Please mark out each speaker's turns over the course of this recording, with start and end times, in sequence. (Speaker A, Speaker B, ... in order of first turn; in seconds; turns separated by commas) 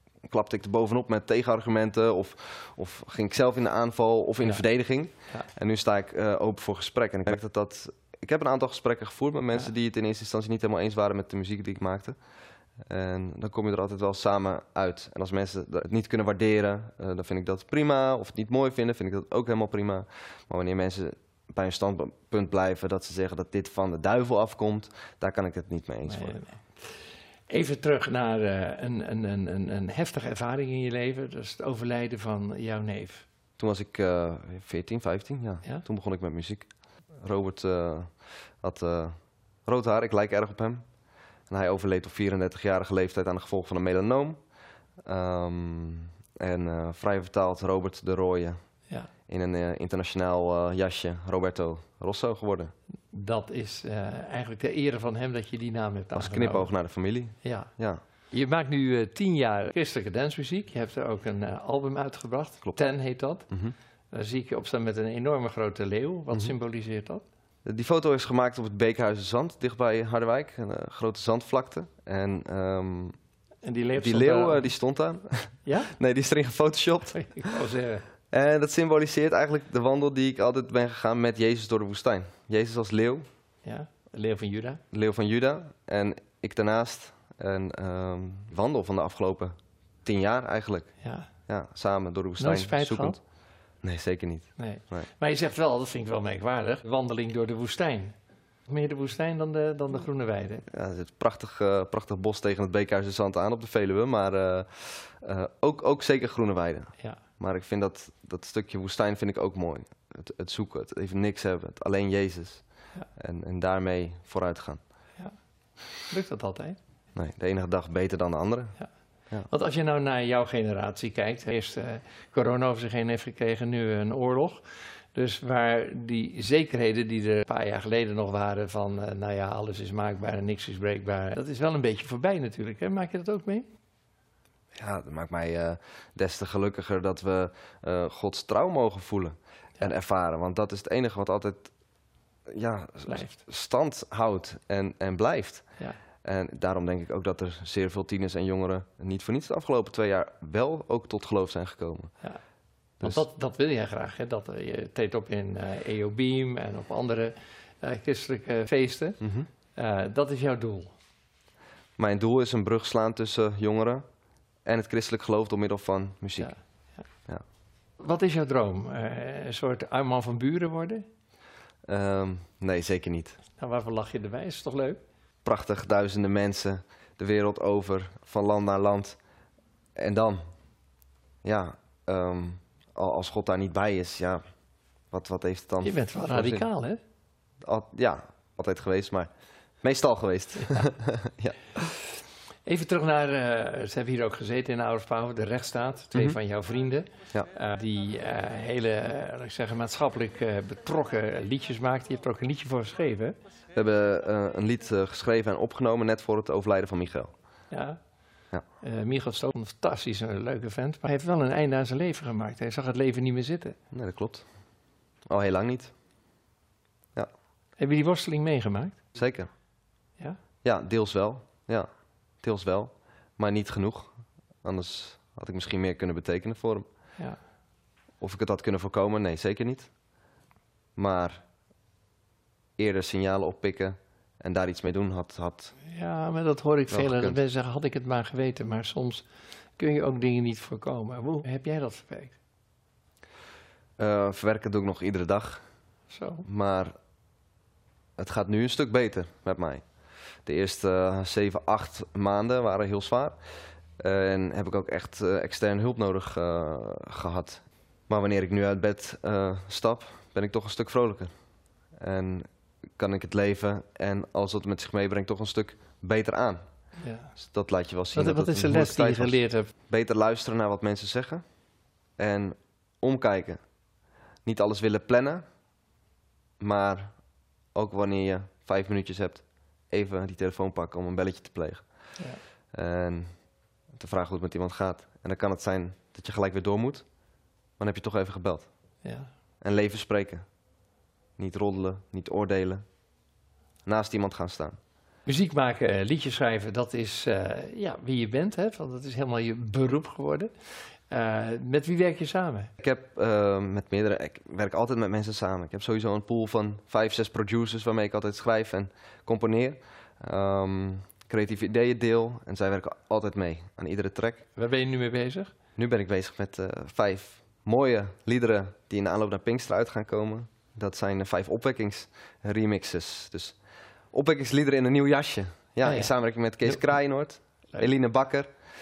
Speaker A: 0.3-12.2, Speaker A: 12.9-26.4, Speaker B: 26.1-26.6, Speaker B: 27.5-33.2, Speaker A: 33.6-36.7, Speaker A: 37.2-38.1, Speaker A: 38.6-40.8, Speaker A: 41.5-44.4, Speaker A: 45.0-48.6, Speaker A: 49.3-52.7, Speaker B: 53.1-56.7, Speaker A: 56.1-58.0, Speaker B: 57.4-57.7, Speaker B: 58.3-63.5, Speaker B: 64.1-67.2, Speaker A: 67.6-73.2, Speaker B: 73.6-74.7, Speaker A: 74.0-77.3, Speaker B: 75.6-75.9, Speaker B: 77.1-78.0, Speaker A: 78.3-83.2, Speaker B: 83.6-84.8, Speaker A: 84.9-90.9, Speaker B: 91.0-91.3, Speaker A: 91.5-93.2, Speaker B: 92.4-93.2, Speaker A: 93.8-95.1, Speaker B: 94.6-98.2, Speaker B: 98.7-100.6, Speaker A: 100.7-112.6, Speaker A: 113.2-114.8, Speaker B: 116.0-116.8, Speaker A: 117.1-118.7, Speaker B: 119.5-133.7, Speaker A: 134.8-141.7, Speaker A: 142.5-145.7, Speaker B: 143.1-143.4, Speaker A: 146.2-152.1, Speaker B: 153.0-159.2, Speaker A: 159.2-159.5, Speaker B: 159.7-160.9, Speaker A: 162.0-164.0, Speaker A: 164.7-166.5, Speaker B: 166.4-167.0, Speaker B: 168.0-171.0, Speaker A: 171.9-173.4, Speaker B: 173.6-175.0, Speaker A: 175.4-179.2, Speaker A: 179.9-180.4, Speaker A: 181.4-184.4, Speaker A: 185.1-186.7, Speaker B: 185.8-187.0, Speaker A: 187.6-189.3, Speaker A: 189.8-191.9, Speaker B: 192.6-203.4, Speaker A: 203.7-207.3, Speaker B: 207.7-208.0, Speaker B: 208.8-213.8, Speaker A: 213.9-214.4, Speaker A: 215.3-215.9, Speaker B: 217.8-219.0, Speaker A: 219.1-219.5, Speaker A: 220.6-221.9, Speaker A: 222.4-226.9, Speaker A: 228.2-229.9, Speaker A: 230.9-231.4, Speaker A: 232.8-235.7, Speaker B: 235.8-242.3, Speaker A: 236.9-237.4, Speaker A: 244.0-245.6, Speaker B: 246.1-246.4, Speaker A: 246.4-246.9, Speaker A: 248.2-249.8, Speaker A: 250.4-253.4, Speaker A: 254.0-261.3, Speaker A: 262.0-266.6, Speaker B: 267.0-267.3, Speaker A: 267.4-269.4, Speaker B: 268.1-269.7, Speaker A: 269.9-271.4, Speaker A: 272.2-273.6, Speaker A: 274.4-275.4, Speaker A: 276.6-277.2, Speaker A: 277.7-281.9, Speaker A: 282.7-283.3, Speaker A: 283.9-287.0, Speaker A: 287.8-288.7, Speaker B: 289.0-289.3, Speaker A: 289.6-290.4, Speaker A: 291.4-292.8, Speaker A: 293.9-294.8, Speaker B: 295.2-300.5, Speaker B: 301.1-302.7, Speaker A: 302.8-314.4, Speaker B: 314.6-315.5, Speaker A: 315.8-323.6, Speaker A: 324.1-328.5, Speaker B: 325.8-326.9